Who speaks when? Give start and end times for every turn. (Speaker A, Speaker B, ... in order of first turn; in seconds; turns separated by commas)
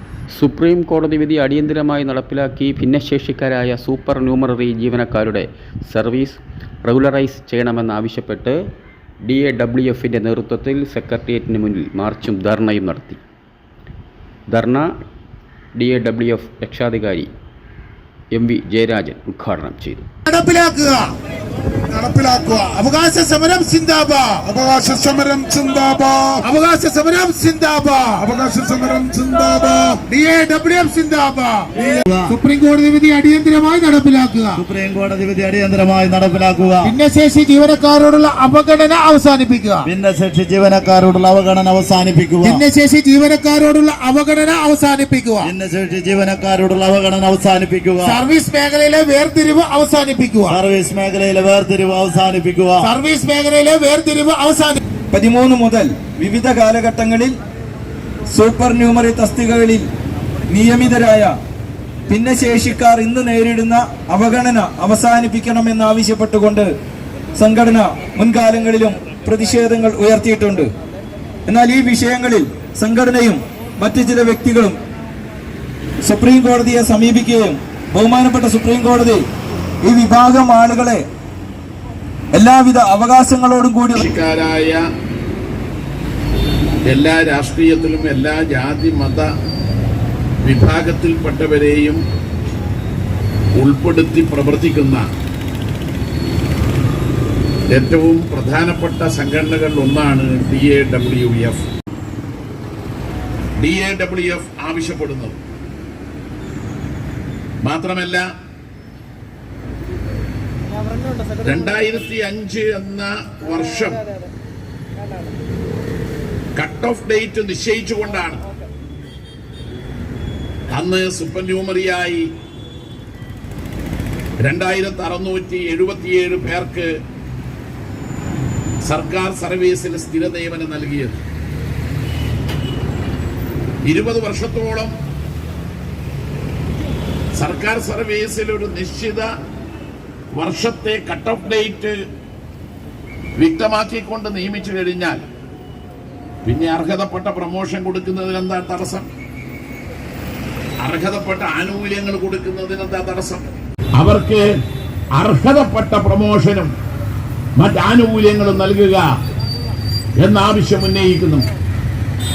Speaker A: 0.3-8.6, Speaker A: 9.2-13.2, Speaker A: 14.5-14.9, Speaker A: 15.7-17.3, Speaker A: 18.3-20.0, Speaker B: 20.2-21.1, Speaker B: 21.9-34.6, Speaker C: 31.8-32.4, Speaker C: 34.5-36.9, Speaker B: 36.8-39.9, Speaker C: 39.9-42.6, Speaker B: 42.4-45.5, Speaker C: 45.4-48.2, Speaker B: 48.0-50.6, Speaker C: 50.5-52.9, Speaker B: 52.8-54.8, Speaker D: 55.1-57.3, Speaker D: 58.3-59.9, Speaker D: 60.5-61.3, Speaker D: 62.1-66.7, Speaker D: 67.3-70.7, Speaker D: 71.5-74.8, Speaker D: 76.0-79.2, Speaker D: 79.8-81.0, Speaker D: 82.3-84.0, Speaker E: 83.9-84.8, Speaker E: 86.8-89.3, Speaker E: 90.4-92.0, Speaker E: 93.6-95.0, Speaker E: 97.7-101.6, Speaker E: 103.6-105.4, Speaker E: 107.6-108.2, Speaker E: 111.4-114.1, Speaker E: 116.5-118.4, Speaker E: 120.7-122.2, Speaker E: 124.4-126.9, Speaker E: 128.8-131.2, Speaker E: 133.9-134.9, Speaker E: 137.3-139.3, Speaker E: 140.3-141.9, Speaker E: 143.4-145.2, Speaker E: 146.4-149.1, Speaker E: 150.8-153.4, Speaker E: 154.0-154.4, Speaker E: 155.2-156.7, Speaker E: 157.6-159.1, Speaker E: 160.2-161.5